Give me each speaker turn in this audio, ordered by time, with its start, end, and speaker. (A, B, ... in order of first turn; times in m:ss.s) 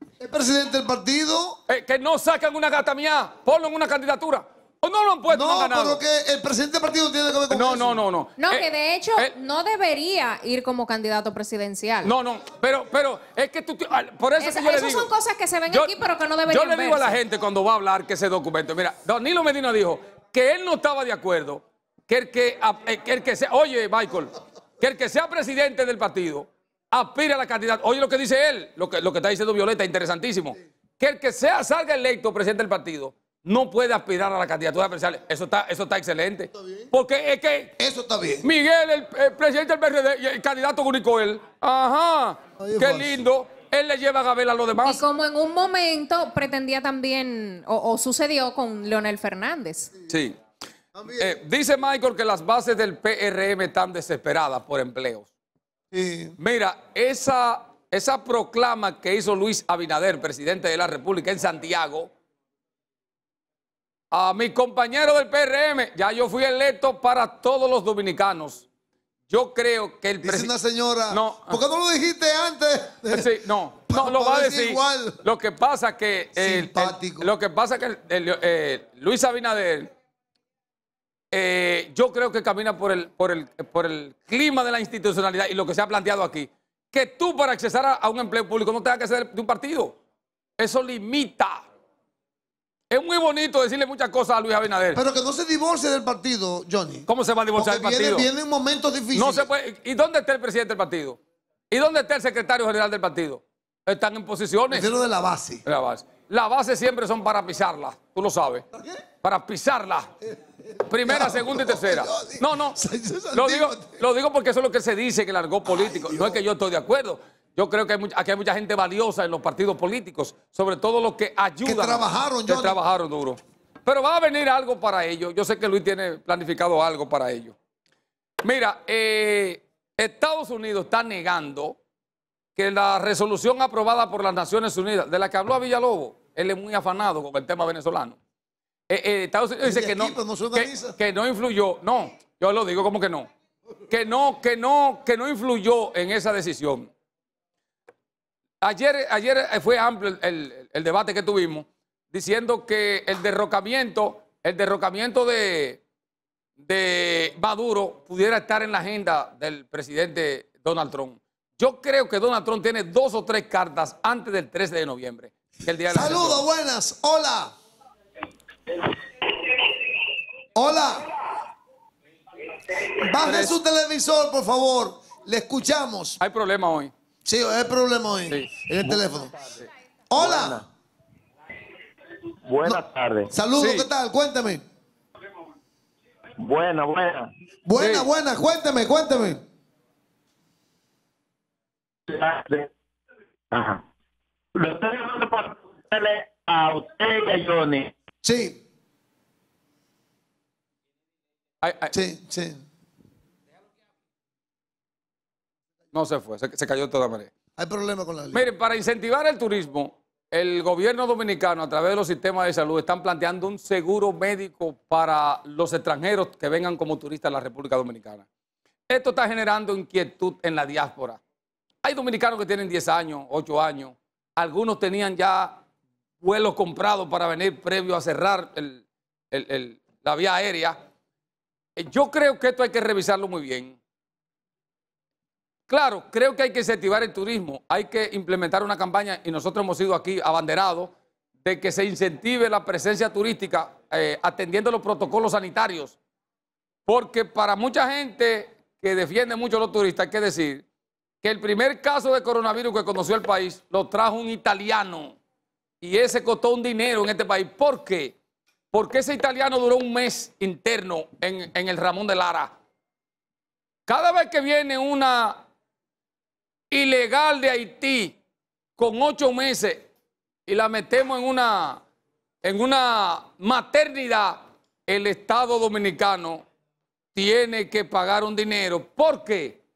0:00.2-0:01.6 A
0:01.7-0:06.0 B
0:05.3-0:08.0 A
0:07.5-0:08.6 B
0:08.4-0:12.1 C
0:12.0-0:15.1 B
0:14.4-0:17.2 C
0:15.7-0:37.7 B
0:37.8-0:38.5 A
0:38.4-0:45.0 B
0:42.6-0:43.2 A
0:44.8-0:49.9 C
0:50.1-0:50.4 B
0:51.0-0:51.4 A
0:51.2-0:55.3 B
0:55.9-0:56.4 A
0:56.4-1:02.1 B
1:04.1-1:08.7 B
1:09.3-1:10.5 B
1:10.2-1:13.4 A
1:11.1-1:11.6 B
1:13.1-1:19.9 B
1:13.9-1:15.2 A
1:16.4-1:17.3 A
1:21.3-1:30.0 B
1:30.6-1:31.6 B
1:32.9-1:35.0 B
1:34.9-1:39.5 A
1:37.1-1:38.3 B
1:39.1-1:41.2 B
1:41.7-1:44.9 B
1:44.7-1:45.6 A
1:45.6-1:48.6 B
1:48.7-1:49.0 A
1:49.2-1:50.1 B
1:50.7-1:54.0 A
1:50.8-1:52.8 B
1:53.3-2:07.6 B
1:55.8-1:56.4 A
2:01.6-2:02.8 A
2:08.4-2:11.8 B
2:12.6-2:18.2 B
2:18.9-2:23.3 B
2:19.6-2:21.0 A
2:23.9-2:26.9 B
2:28.6-2:35.8 B
2:36.6-2:46.4 B
2:45.9-2:47.5 A
2:50.6-2:51.1 A
2:52.9-2:56.2 A
2:53.2-2:53.6 B
2:56.2-2:56.9 B
2:57.2-2:59.4 A
2:58.3-2:59.0 B
3:00.1-3:00.6 A
3:00.2-3:00.6 D
3:02.5-3:03.3 D
3:03.3-3:04.6 A
3:03.6-3:03.9 B
3:06.4-3:07.3 D
3:07.7-3:09.4 A
3:07.8-3:08.1 B
3:12.1-3:12.7 D
3:13.5-3:13.8 D
3:14.6-3:17.9 D
3:18.2-3:18.6 A
3:21.6-3:21.9 B
3:21.9-3:22.6 A
3:25.9-3:27.3 B
3:27.6-3:28.5 A
3:28.3-3:38.3 B
3:38.9-3:41.2 B
3:41.8-3:45.6 B
3:46.2-3:50.8 B
3:51.8-3:53.8 B
3:55.7-4:00.9 B
4:01.4-4:06.0 B
4:06.9-4:10.6 B
4:11.2-4:15.2 B
4:15.8-4:18.1 B
4:18.7-4:22.5 B
4:23.9-4:25.4 B
4:26.7-4:28.2 B
4:28.8-4:29.9 B
4:30.5-4:31.8 B
4:32.4-4:36.4 B
4:37.2-4:39.6 B